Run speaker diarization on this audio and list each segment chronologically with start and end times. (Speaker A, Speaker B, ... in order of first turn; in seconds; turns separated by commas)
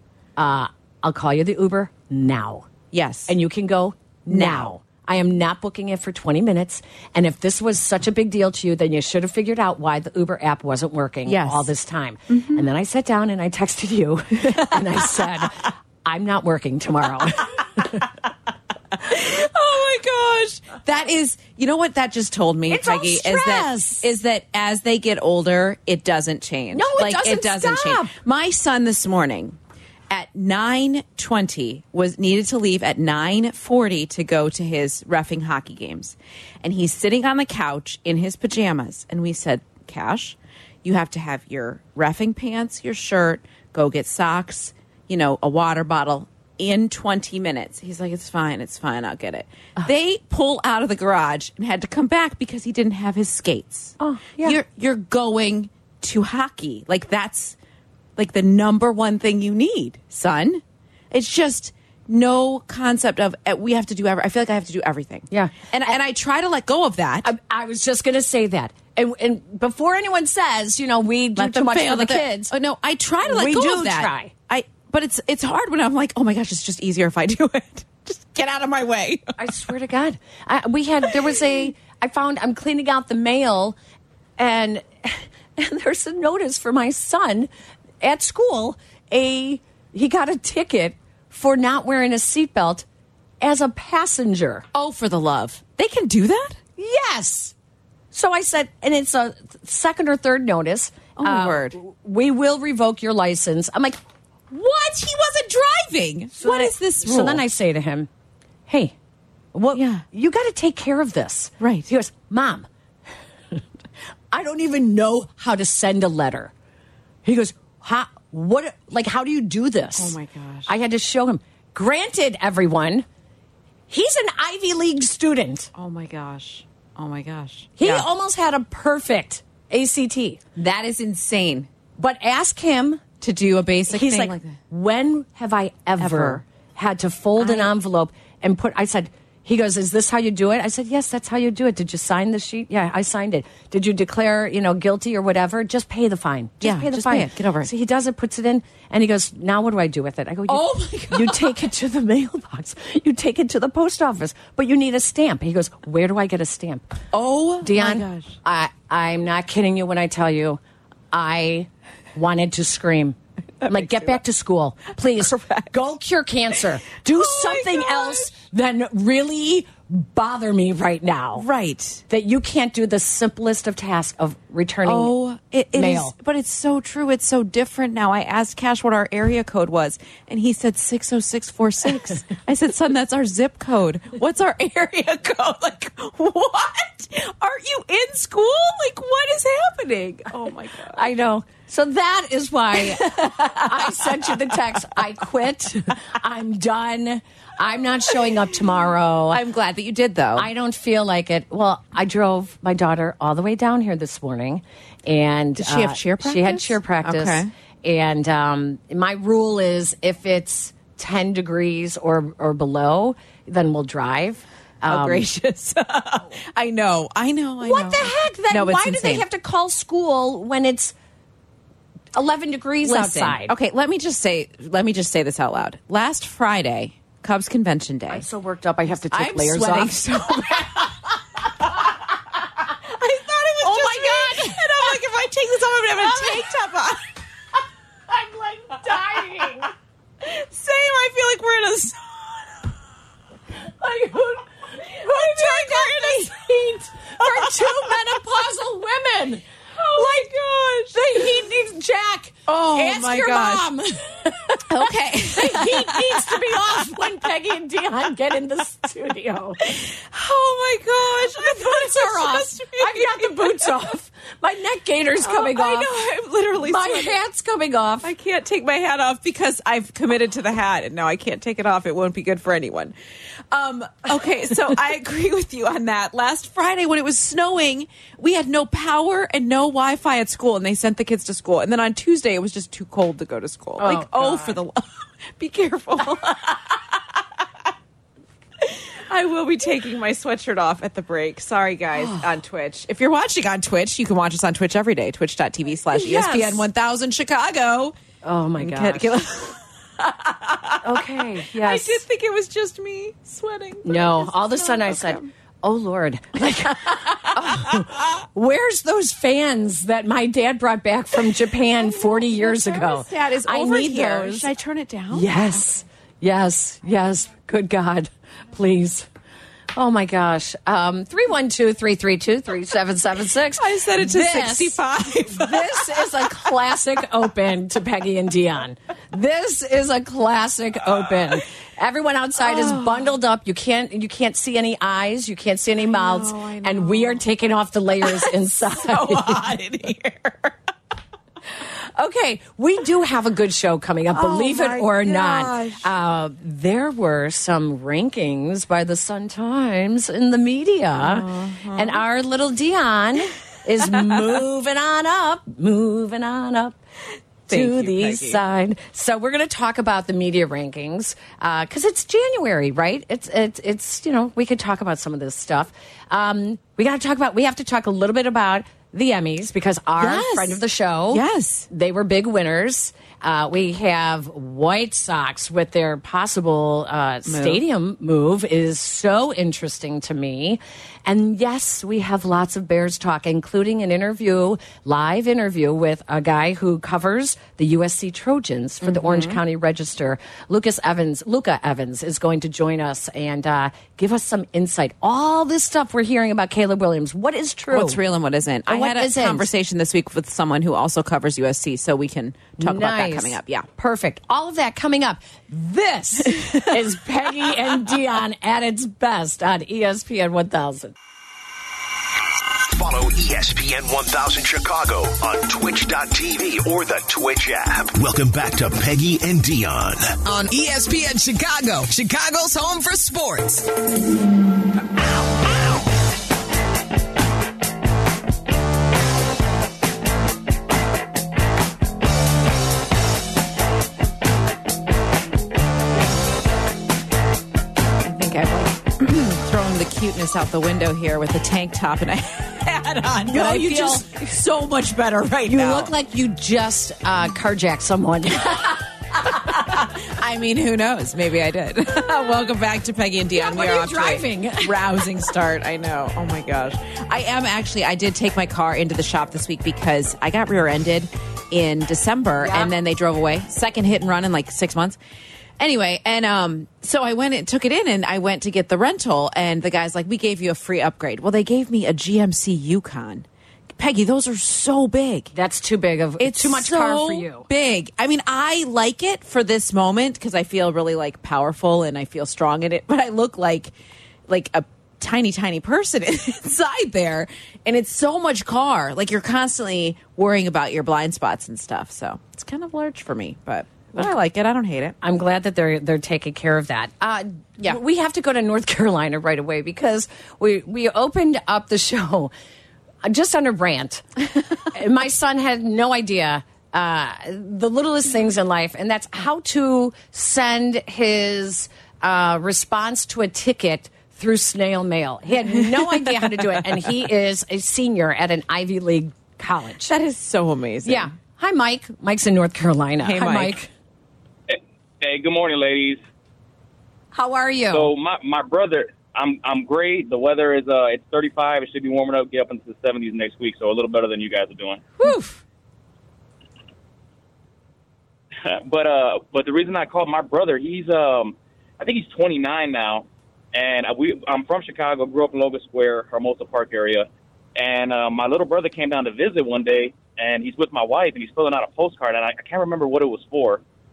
Speaker A: 0.4-2.7, Speaker B: 2.9-3.3, Speaker A: 3.3-18.1, Speaker B: 4.3-4.7, Speaker B: 11.2-11.7, Speaker B: 12.3-12.6, Speaker B: 14.4-15.2, Speaker B: 19.0-29.6, Speaker A: 22.7-24.1, Speaker A: 26.7-28.1, Speaker B: 30.1-57.5, Speaker A: 54.0-54.6, Speaker B: 58.2-67.3, Speaker A: 65.3-65.9, Speaker A: 67.2-72.5, Speaker B: 71.4-79.3, Speaker A: 73.2-74.3, Speaker A: 79.4-83.8, Speaker A: 84.4-87.5, Speaker A: 88.0-92.8, Speaker A: 93.4-94.7, Speaker B: 94.7-96.6, Speaker A: 96.8-97.5, Speaker A: 98.1-104.0, Speaker B: 101.2-101.8, Speaker B: 104.5-107.4, Speaker A: 106.4-108.1, Speaker A: 108.7-108.9, Speaker A: 109.5-112.7, Speaker B: 109.7-110.0, Speaker B: 111.6-111.9, Speaker A: 114.3-116.5, Speaker A: 117.2-123.0, Speaker B: 119.9-120.7, Speaker A: 123.9-125.7, Speaker B: 125.7-128.1, Speaker A: 127.8-130.5, Speaker B: 130.6-131.7, Speaker A: 132.0-133.0, Speaker B: 133.2-134.6, Speaker A: 133.9-156.9, Speaker B: 136.0-136.4, Speaker B: 137.4-137.7, Speaker B: 146.6-147.7, Speaker B: 150.5-151.5, Speaker B: 157.1-158.3, Speaker A: 157.6-160.6, Speaker A: 161.1-163.2, Speaker B: 163.6-164.2, Speaker A: 163.7-171.4, Speaker B: 165.2-165.7, Speaker B: 167.0-168.3, Speaker B: 171.3-172.0, Speaker A: 172.1-175.1, Speaker B: 174.8-191.1, Speaker A: 175.7-176.1, Speaker A: 190.9-199.4, Speaker B: 192.7-194.6, Speaker B: 199.3-200.5, Speaker A: 200.3-215.3, Speaker B: 205.6-207.5, Speaker B: 214.8-219.2, Speaker A: 217.6-220.9, Speaker A: 222.1-223.5, Speaker B: 222.8-228.3, Speaker A: 228.1-230.3, Speaker B: 229.1-231.0, Speaker B: 232.7-237.1, Speaker A: 233.6-234.7, Speaker A: 236.0-236.4, Speaker A: 238.1-239.7, Speaker B: 240.2-242.7, Speaker A: 243.8-249.4, Speaker B: 244.9-246.5, Speaker B: 247.2-248.0, Speaker B: 249.8-251.3, Speaker A: 249.9-250.3, Speaker A: 250.9-254.7, Speaker B: 252.5-253.7, Speaker B: 254.7-256.8, Speaker A: 255.3-259.6, Speaker B: 259.6-263.9, Speaker A: 261.4-265.9, Speaker B: 265.2-267.2, Speaker A: 266.6-268.1, Speaker B: 268.0-272.9, Speaker B: 273.5-287.2, Speaker A: 283.8-284.6, Speaker B: 288.6-297.9, Speaker A: 291.9-292.3, Speaker A: 295.9-296.6, Speaker A: 298.2-299.2, Speaker B: 298.6-305.3, Speaker A: 300.8-302.0, Speaker A: 303.8-314.5, Speaker B: 306.8-308.1, Speaker B: 311.7-315.6, Speaker A: 315.1-319.1, Speaker A: 319.7-324.8, Speaker B: 323.6-326.3, Speaker A: 325.3-339.4, Speaker B: 332.4-333.1, Speaker B: 335.8-337.2, Speaker B: 338.0-340.6, Speaker A: 341.6-356.8, Speaker B: 344.1-345.9, Speaker B: 351.0-352.0, Speaker B: 357.5-358.4, Speaker A: 357.5-398.0, Speaker B: 370.0-371.7, Speaker B: 377.2-377.6, Speaker B: 388.8-389.4, Speaker B: 397.7-403.7, Speaker A: 398.7-399.5, Speaker A: 402.6-410.9, Speaker C: 412.7-420.2, Speaker D: 420.2-423.6, Speaker B: 438.0-445.9, Speaker A: 443.2-444.1, Speaker A: 445.4-448.8, Speaker B: 449.3-465.0, Speaker A: 453.3-455.0, Speaker A: 462.4-462.7, Speaker B: 465.6-475.3, Speaker A: 475.3-477.4, Speaker B: 476.2-483.7, Speaker B: 484.3-495.0, Speaker A: 495.0-502.3, Speaker A: 503.0-504.0, Speaker A: 504.7-519.9, Speaker B: 515.6-516.6, Speaker B: 519.8-521.1, Speaker A: 520.8-523.7, Speaker B: 523.0-523.6, Speaker E: 524.5-526.0, Speaker A: 527.1-527.9, Speaker E: 527.7-534.8, Speaker A: 535.0-535.4, Speaker E: 538.4-553.6